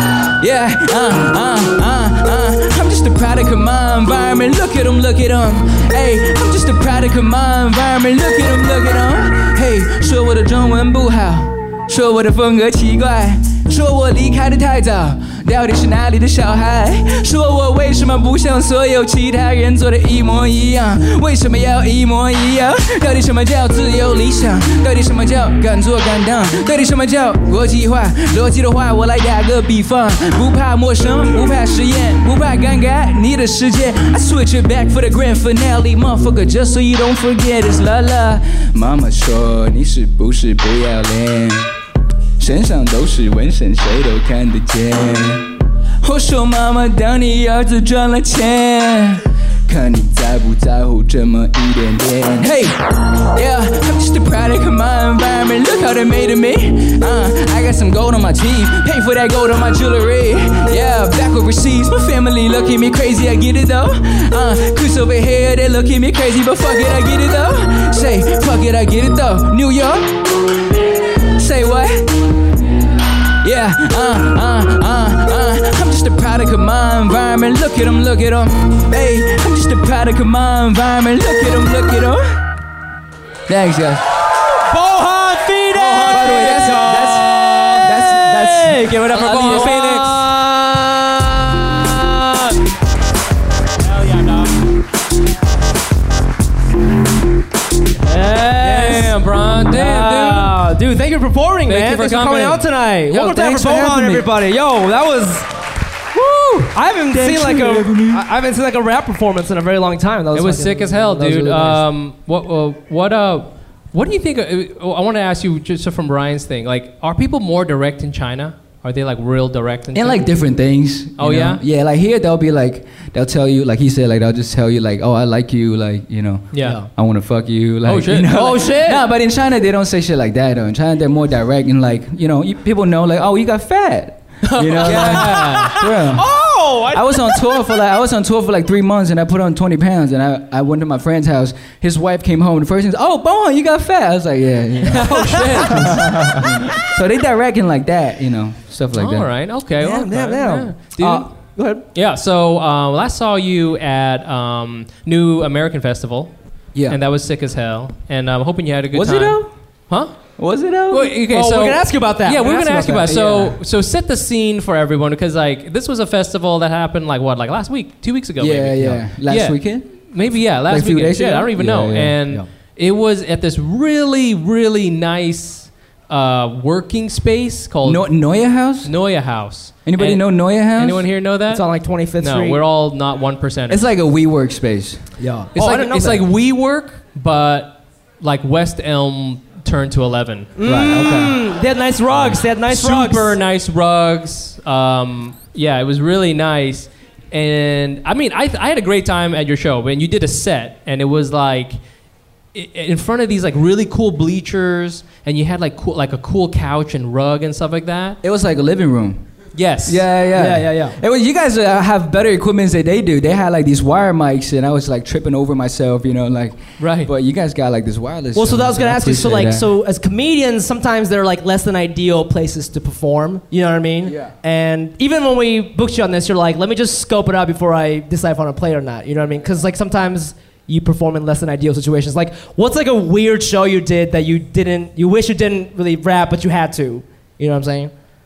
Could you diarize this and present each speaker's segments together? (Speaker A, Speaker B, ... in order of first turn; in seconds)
Speaker A: 0.4-41.7, 42.4-70.1, 71.3-72.1, 73.4-82.2, 83.5-84.0, 86.1-87.3, 87.8-89.7, 103.1-104.3, 106.2-108.2, 111.3-111.8, 119.9-136.3, 136.9-149.3, 158.9-159.5, 160.4-161.1, 163.1-163.6, 168.4-169.9, 170.7-172.2, 177.8-178.9, 179.8-181.1, 183.7-185.0, 190.6-191.3, 208.2-209.2, 209.9-219.7, 224.1-224.3
Speaker B: 84.5-92.6, 98.0-99.1, 99.7-105.5, 106.6-111.8, 126.6-126.9, 128.3-129.1, 134.8-137.4, 145.6-146.1, 149.8-151.8, 161.3-163.2, 181.5-182.6, 185.2-186.2, 190.6-193.4, 210.3-211.0, 218.3-237.9
Speaker C: 85.8-87.8, 88.8-90.3, 93.8-94.5, 98.6-100.6, 101.7-102.7, 110.3-120.3, 121.2-121.6, 126.5-126.8, 127.8-128.4, 134.4-135.8, 144.9-146.1, 148.9-151.3, 151.9-156.3, 156.9-160.2, 160.9-178.1, 178.8-181.7, 182.2-183.8, 185.6-190.6, 192.7-201.8, 202.5-208.2, 209.6-210.0, 216.8-217.1